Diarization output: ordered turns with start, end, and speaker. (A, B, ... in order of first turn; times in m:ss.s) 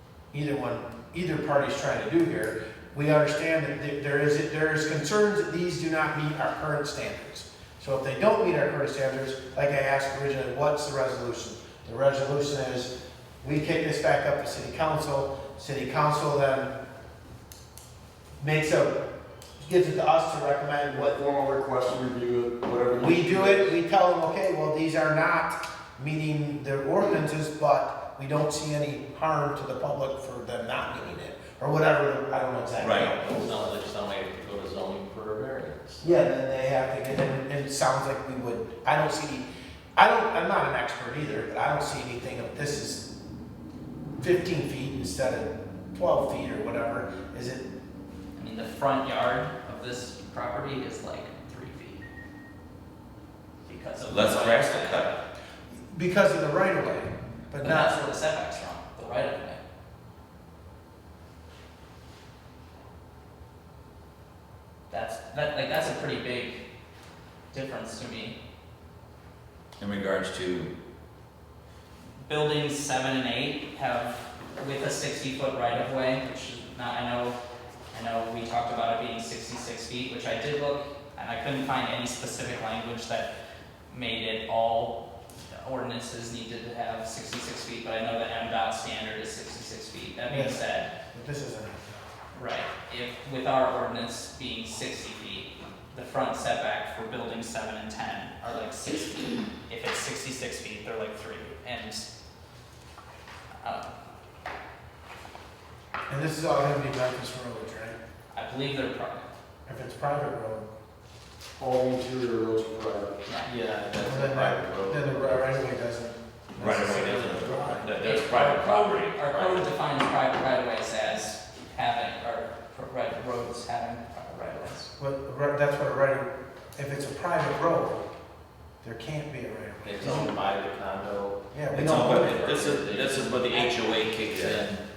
0:00.3-0:16.7 A
0:18.4-0:19.0 A
0:19.6-0:21.2 A
0:20.9-0:23.8 B
0:23.0-0:33.6 A
0:32.8-0:33.1 C
0:33.2-0:36.1 D
0:36.0-0:43.0 A
0:44.2-0:47.6 A
0:48.4-0:52.1 E
0:53.6-0:55.2 E
0:54.1-0:55.1 C
0:55.7-0:58.0 A
0:57.6-0:59.6 E
1:04.9-1:06.6 E
1:07.5-1:08.4 E
1:09.8-1:10.7 C
1:12.2-1:17.4 E
1:17.9-1:23.3 E
1:23.9-1:30.9 E
1:30.3-1:30.6 A
1:31.1-1:32.0 A
1:32.4-1:42.0 E
1:43.6-1:43.9 E
1:46.1-1:48.0 A
1:48.3-1:49.3 E
1:49.6-1:50.7 A
1:51.6-1:53.2 B
1:53.4-1:55.6 D
1:54.0-1:57.9 A
1:56.6-1:59.6 C
1:57.9-2:04.9 E
2:05.0-2:08.0 A
2:08.8-2:10.3 A
2:09.8-2:11.4 D
2:11.5-2:12.4 A
2:11.7-2:14.8 C
2:12.0-2:14.8 D